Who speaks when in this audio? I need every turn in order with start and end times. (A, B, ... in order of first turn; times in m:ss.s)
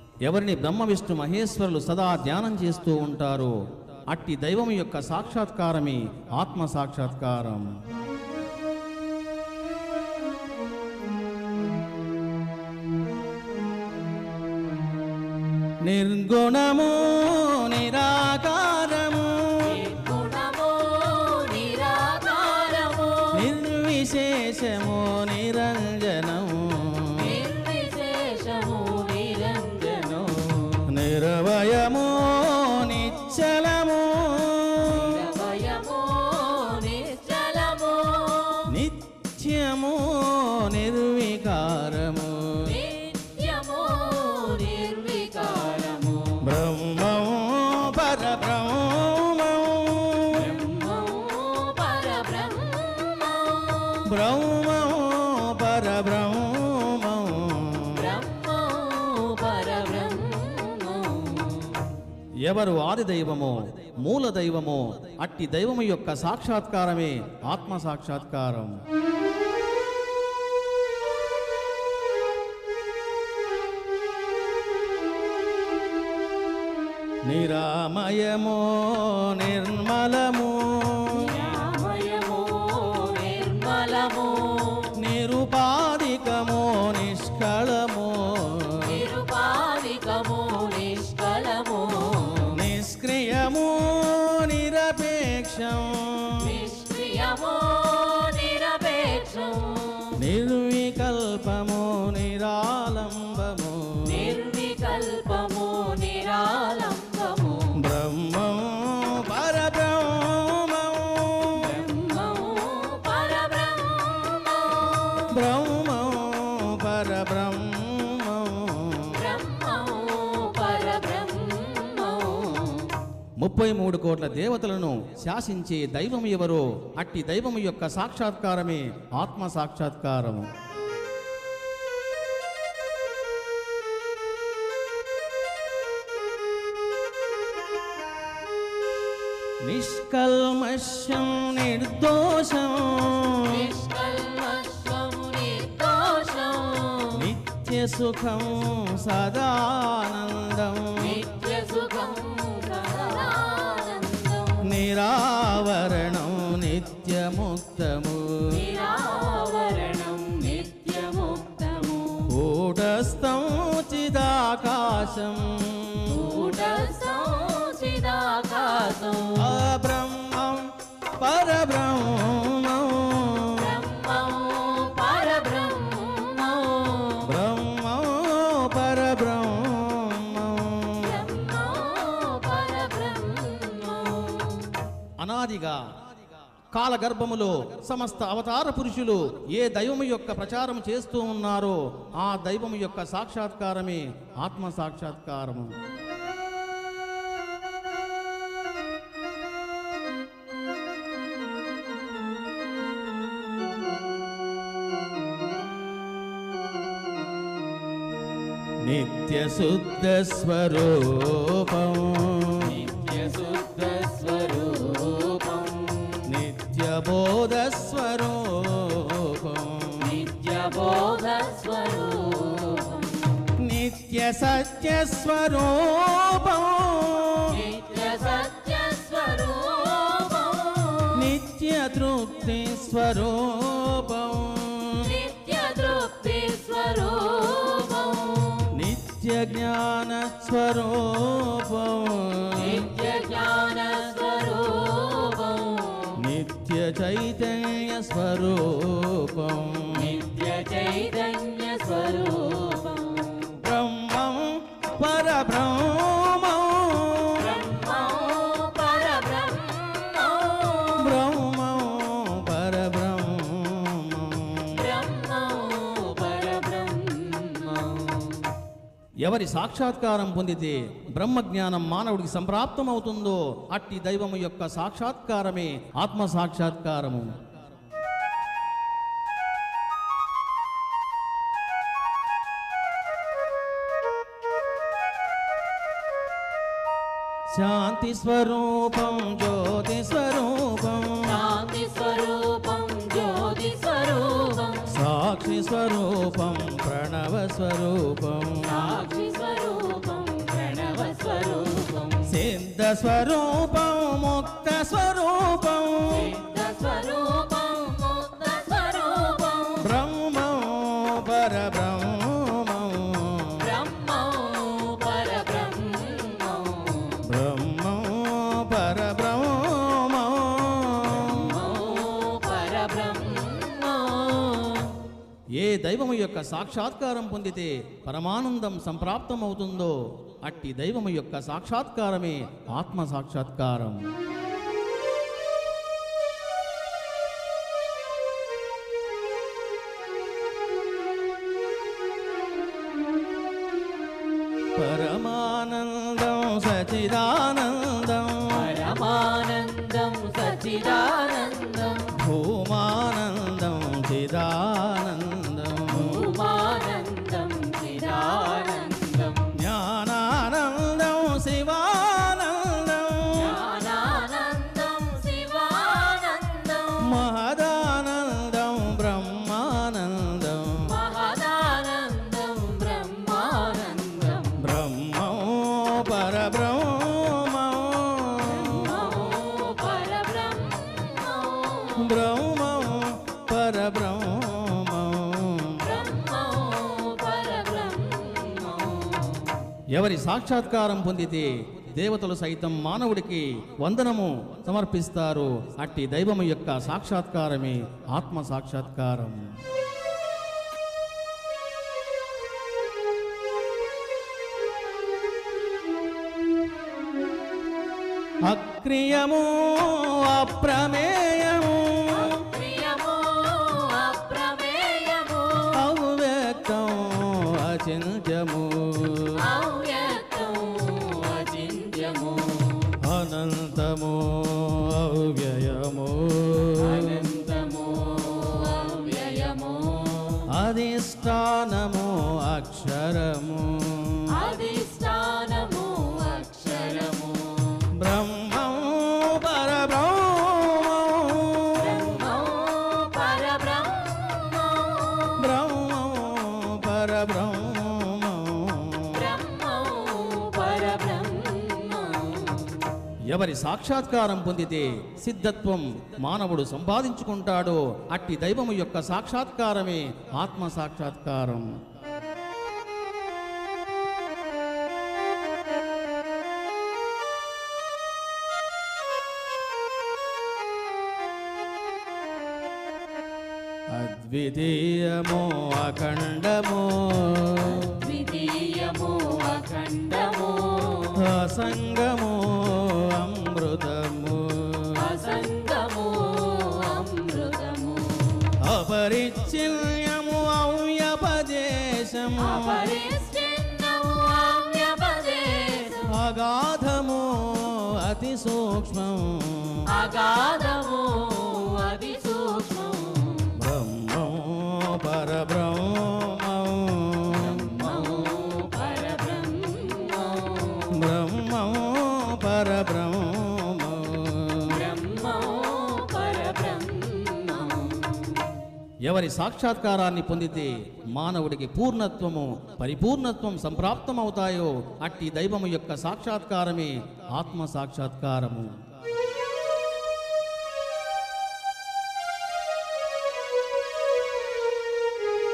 0:00.2-0:07.7 A
0:15.8-0:19.8 A
0:19.6-0:23.4 B
0:23.3-0:27.4 A
0:27.2-0:30.9 B
0:30.8-0:35.2 A
0:34.8-0:38.7 B
0:38.6-0:42.7 A
0:42.6-0:46.4 B
0:46.4-0:50.6 A
0:50.3-0:54.1 B
0:54.0-0:58.1 A
0:57.9-1:01.9 B
1:02.4-1:08.8 A
1:17.2-1:21.4 A
1:21.1-1:24.9 B
1:25.0-1:29.0 A
1:28.8-1:32.6 B
1:32.5-1:36.5 A
1:36.4-1:40.2 B
1:40.2-1:44.3 A
1:44.0-1:47.8 B
1:47.7-1:51.7 A
1:51.5-1:55.3 B
1:55.2-1:59.2 A
1:59.1-2:03.0 B
2:03.4-2:10.5 A
2:19.6-2:23.7 A
2:23.4-2:27.3 B
2:27.1-2:31.2 A
2:31.0-2:34.7 B
2:34.6-2:38.6 A
2:38.5-2:42.3 B
2:42.2-2:46.3 A
2:46.0-2:49.6 B
2:49.4-2:53.7 A
2:53.5-2:57.3 B
2:57.2-3:01.2 A
3:01.0-3:04.8 B
3:05.2-3:05.8 A
3:06.7-3:15.7 A
3:28.8-3:32.9 A
3:32.6-3:36.3 B
3:36.2-3:40.2 A
3:40.0-3:43.5 B
3:43.6-3:47.6 A
3:47.5-3:51.3 B
3:51.1-3:55.1 A
3:55.0-3:58.7 B
3:58.7-4:02.8 A
4:02.5-4:06.2 B
4:06.1-4:10.2 A
4:09.9-4:13.6 B
4:13.5-4:17.5 A
4:17.3-4:21.2 B
4:21.0-4:24.8 A
4:24.7-4:28.5 B
4:29.2-4:37.4 A
4:47.5-4:51.4 A
4:51.2-4:54.9 B
4:54.9-4:59.0 A
4:58.6-5:02.3 B
5:02.2-5:06.3 A
5:06.1-5:09.9 B
5:09.8-5:13.7 A
5:13.6-5:17.2 B
5:17.2-5:21.6 A
5:21.1-5:25.0 B
5:25.5-5:34.1 A
5:44.7-5:48.7 A
5:48.5-5:52.1 B
5:52.1-5:56.4 A
5:55.9-5:59.6 B
5:59.5-6:03.6 A
6:03.3-6:07.2 B
6:07.0-6:11.0 A
6:10.8-6:14.6 B
6:14.6-6:19.0 A
6:18.4-6:22.1 B
6:22.0-6:25.9 A
6:25.8-6:29.6 B
6:29.9-6:39.5 A
6:48.4-6:52.4 A
6:52.1-6:55.8 B
6:55.7-6:59.4 A
6:59.4-7:03.0 B
7:03.0-7:07.2 A
7:06.8-7:10.5 B
7:10.5-7:14.3 A
7:14.3-7:17.9 B
7:17.9-7:22.0 A
7:21.8-7:25.4 B
7:25.4-7:29.3 A
7:29.1-7:32.9 B
7:33.3-7:41.8 A
7:53.9-7:58.0 A
7:57.6-8:01.2 B
8:01.1-8:05.0 A
8:04.9-8:08.6 B
8:08.6-8:12.8 A
8:12.4-8:16.1 B
8:16.1-8:19.9 A
8:19.8-8:23.6 B
8:23.5-8:27.7 A
8:27.3-8:31.0 B
8:30.9-8:34.8 A
8:34.7-8:38.6 B
8:39.0-8:48.8 A